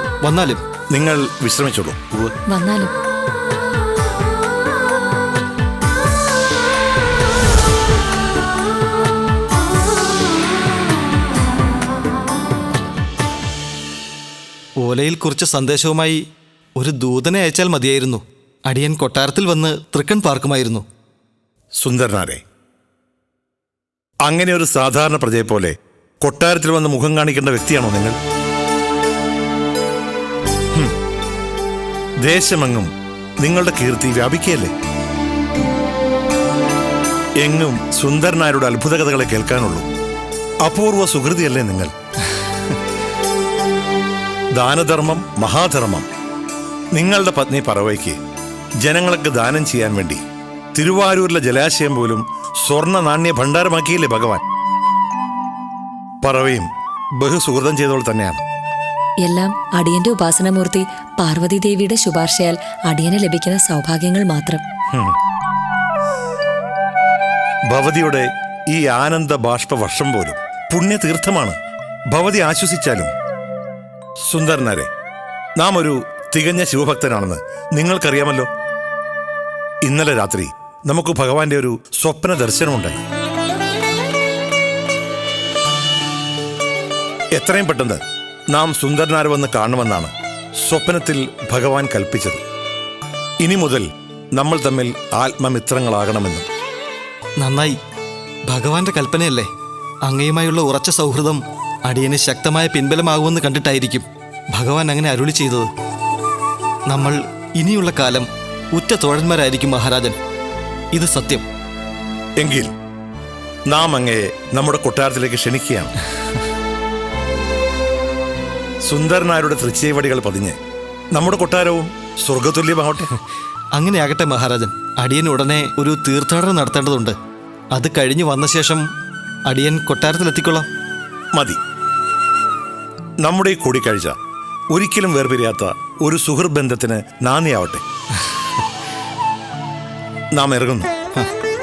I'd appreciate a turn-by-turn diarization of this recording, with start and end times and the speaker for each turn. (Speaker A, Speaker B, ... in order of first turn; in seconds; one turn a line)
Speaker A: 0.2-0.6
Speaker B: 0.9-2.3
Speaker C: 2.5-2.9
Speaker A: 14.8-16.2
Speaker A: 16.8-20.9
Speaker B: 21.8-22.4
Speaker B: 24.2-28.2
Speaker B: 32.2-34.7
Speaker B: 37.4-39.9
Speaker B: 40.6-41.9
Speaker B: 44.5-46.1
Speaker B: 46.9-48.2
Speaker B: 48.8-50.2
Speaker B: 50.8-54.4
Speaker B: 56.2-58.4
Speaker C: 59.2-64.6
Speaker B: 64.9-65.2
Speaker B: 67.7-71.6
Speaker B: 72.1-73.1
Speaker B: 74.3-74.9
Speaker B: 75.6-78.5
Speaker B: 79.8-83.0
Speaker B: 87.3-92.4
Speaker B: 93.4-96.5
Speaker A: 97.4-97.8
Speaker A: 98.5-99.5
Speaker A: 100.1-105.7
Speaker A: 106.9-110.2
Speaker A: 110.9-111.5
Speaker B: 112.4-112.7
Speaker B: 113.7-115.9
Speaker B: 118.8-120.6
Speaker B: 121.2-123.1
Speaker A: 123.8-127.2
Speaker A: 127.7-128.8
Speaker A: 129.5-130.7
Speaker B: 133.2-134.2
Speaker B: 134.7-137.8
Speaker B: 140.4-140.9